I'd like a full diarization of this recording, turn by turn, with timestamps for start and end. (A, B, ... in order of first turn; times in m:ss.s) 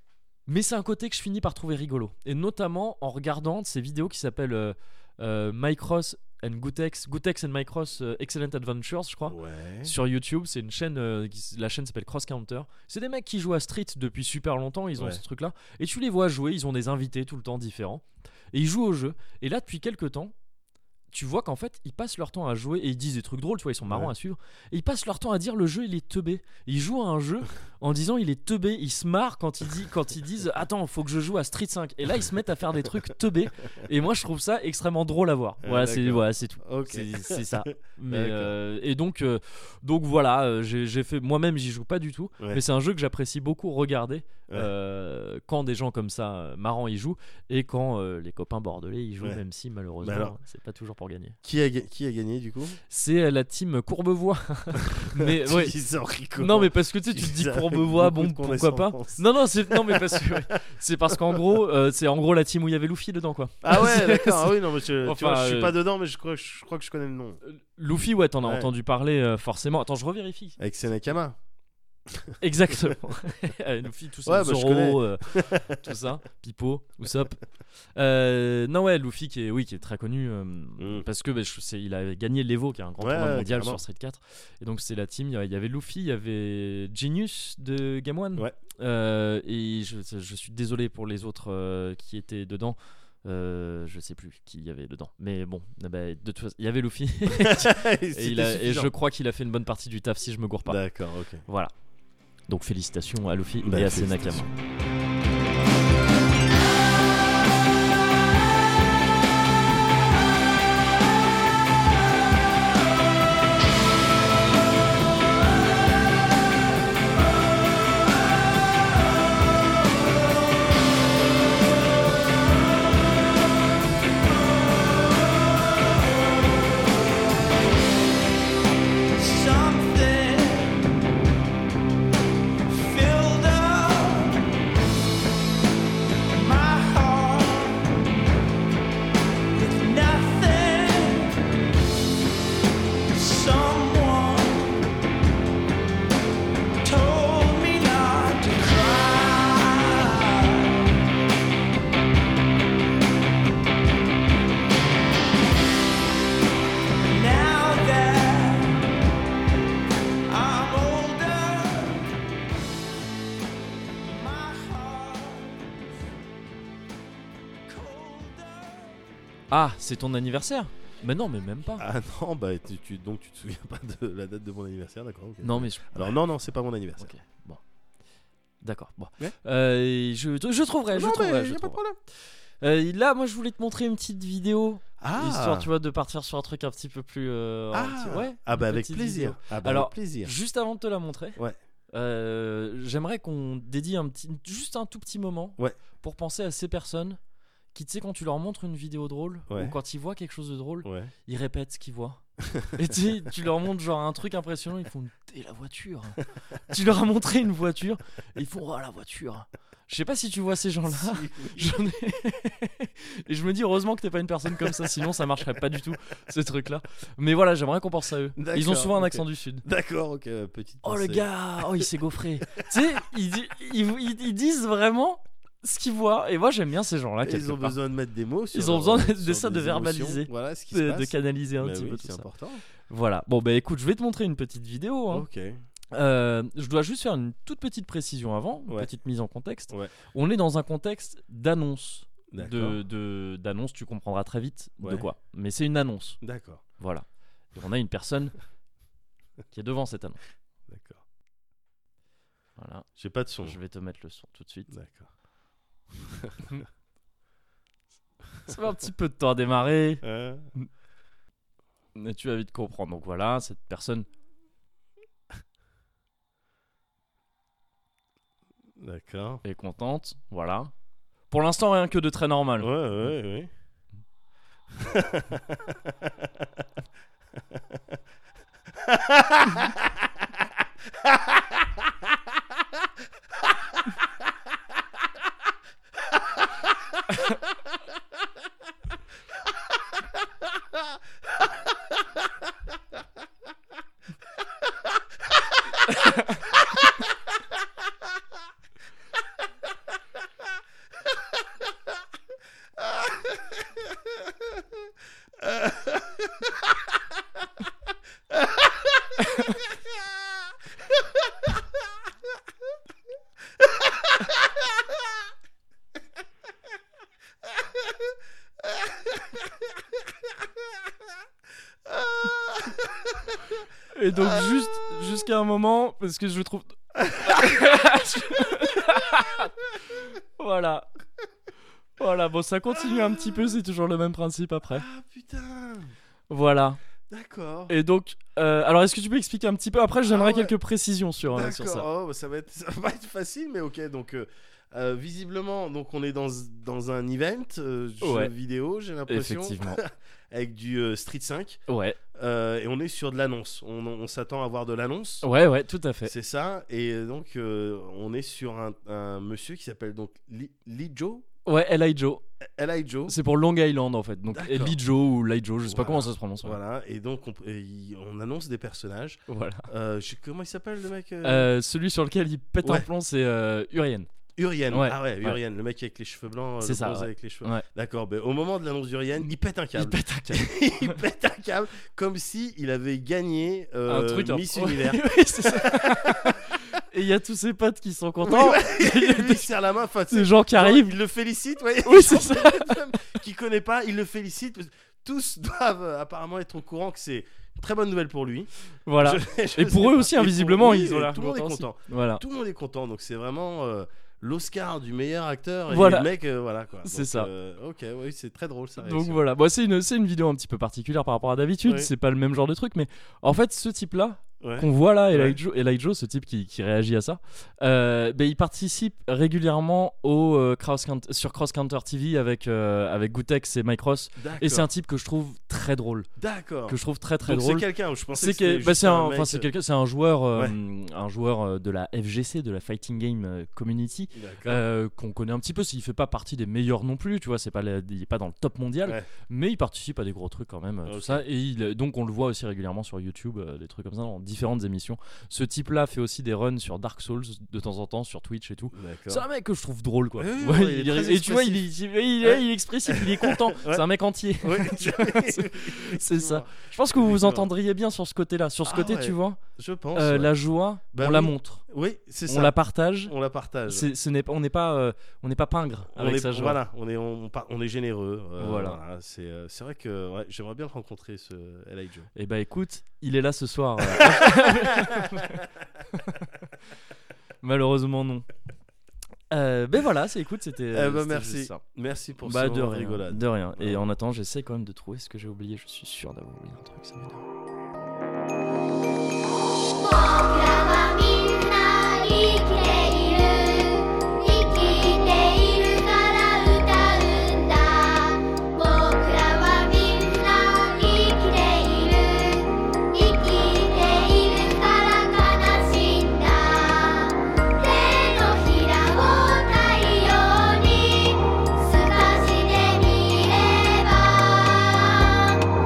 0:00.5-0:20.3 A
0:09.3-0:09.9 B
0:21.1-0:51.4 A
0:23.8-0:24.1 B
0:35.6-0:38.5 B
0:50.0-0:50.4 B
0:51.4-0:52.8 B
0:52.9-0:55.8 A
0:55.2-1:00.4 B
0:56.4-1:05.8 A
1:01.1-1:01.5 B
1:03.6-1:07.4 B
1:07.4-1:10.6 A
1:08.4-1:08.7 B
1:10.6-1:11.4 B
1:12.1-1:12.9 B
1:12.4-1:17.4 A
1:14.2-1:15.8 B
1:18.0-1:40.8 A
1:20.8-1:21.0 B
1:23.0-1:23.8 B
1:37.3-1:38.9 B
1:40.6-1:41.4 B
1:41.4-1:41.7 A
1:42.5-1:44.5 A
1:43.6-1:44.5 B
2:04.7-2:07.0 C
2:09.2-2:10.9 C
2:12.7-2:14.5 C
2:16.3-2:17.9 C
2:19.5-2:21.4 C
2:23.1-2:24.8 C
2:26.8-2:31.0 C
2:37.0-2:38.8 C
2:40.3-2:42.1 C
2:44.0-2:45.7 C
2:47.7-2:49.0 C
2:49.5-2:51.8 A
2:51.8-2:57.1 B
2:55.4-2:56.2 A
2:57.0-2:57.6 A
2:58.6-3:01.8 A
3:00.9-3:02.0 B
3:02.6-3:11.4 A
3:05.0-3:05.7 B
3:07.7-3:10.3 B
3:11.9-3:17.2 A
3:17.7-3:39.6 A
3:19.5-3:19.7 B
3:20.8-3:21.1 B
3:30.9-3:31.8 B
3:34.5-3:34.8 B
3:38.4-3:41.3 B
3:40.8-3:47.8 A
3:47.2-3:52.6 B
3:48.5-3:52.3 A
3:52.9-3:55.2 A
3:55.1-3:55.6 B
3:55.9-4:06.2 A
4:02.3-4:02.8 B
4:04.8-4:05.0 B
4:06.2-4:06.6 B
4:06.8-4:08.3 A
4:09.5-4:10.2 A
4:10.7-4:11.0 B
4:12.6-4:12.9 A
4:13.0-4:13.6 B
4:13.4-4:14.7 A
4:14.7-4:15.1 B
4:16.0-4:16.5 B
4:18.4-4:20.0 A
4:20.0-4:20.5 B
4:21.9-4:24.1 A
4:28.8-4:29.4 B
4:29.4-4:30.7 A
4:31.3-4:32.7 A
4:32.6-4:33.5 B
4:34.7-4:36.5 B
4:37.5-4:37.9 B
4:38.8-4:40.0 B
4:41.0-4:41.7 B
4:55.9-4:56.4 A
5:05.4-5:06.0 B
5:23.9-5:29.5 A
5:27.1-5:27.5 B
5:30.1-5:30.9 A
5:32.0-5:34.8 A
5:32.8-5:33.4 B
5:34.7-5:35.9 B
5:36.3-5:36.8 A
5:37.1-5:37.7 B
5:37.7-5:41.9 A
5:40.0-5:40.5 B
5:41.3-5:51.6 B
5:48.0-5:48.3 A
5:49.1-5:49.8 A
5:51.7-5:52.0 A
5:52.1-5:55.2 B
5:55.2-5:56.1 A
5:56.0-6:01.2 B
6:01.4-6:02.2 A
6:02.4-6:03.2 B
6:03.1-6:06.6 A
6:04.3-6:04.8 B
6:05.7-6:11.5 B
6:09.3-6:09.7 A
6:11.2-6:14.1 A
6:12.6-6:12.9 B
6:14.4-6:26.4 B
6:14.7-6:15.4 A
6:16.6-6:17.6 A
6:19.8-6:21.0 A
6:23.9-6:29.5 A
6:28.2-6:49.2 B
6:30.1-6:30.9 A
6:31.8-6:32.8 A
6:38.8-6:42.2 A
6:45.7-6:46.1 A
6:46.8-6:47.3 A
6:48.8-7:06.1 A
6:51.6-6:51.9 B
6:54.4-6:55.4 B
7:04.2-7:04.7 B
7:06.2-7:09.5 B
7:06.7-7:39.4 A
7:14.1-7:14.6 B
7:20.8-7:21.2 B
7:28.7-7:29.2 B
7:30.2-7:31.7 B
7:32.2-7:33.8 B
7:34.4-7:37.5 B
7:38.6-7:40.3 B
7:39.9-7:41.6 A
7:40.9-7:43.9 B
7:42.3-7:43.1 A
7:43.7-7:46.6 A
7:45.9-7:52.1 B
7:48.4-7:48.8 A
7:52.1-7:56.3 A
7:53.8-7:55.3 B
7:57.4-7:58.2 A
7:59.3-8:01.6 A
8:00.7-8:03.8 B
8:02.2-8:07.2 A
8:09.8-8:35.4 D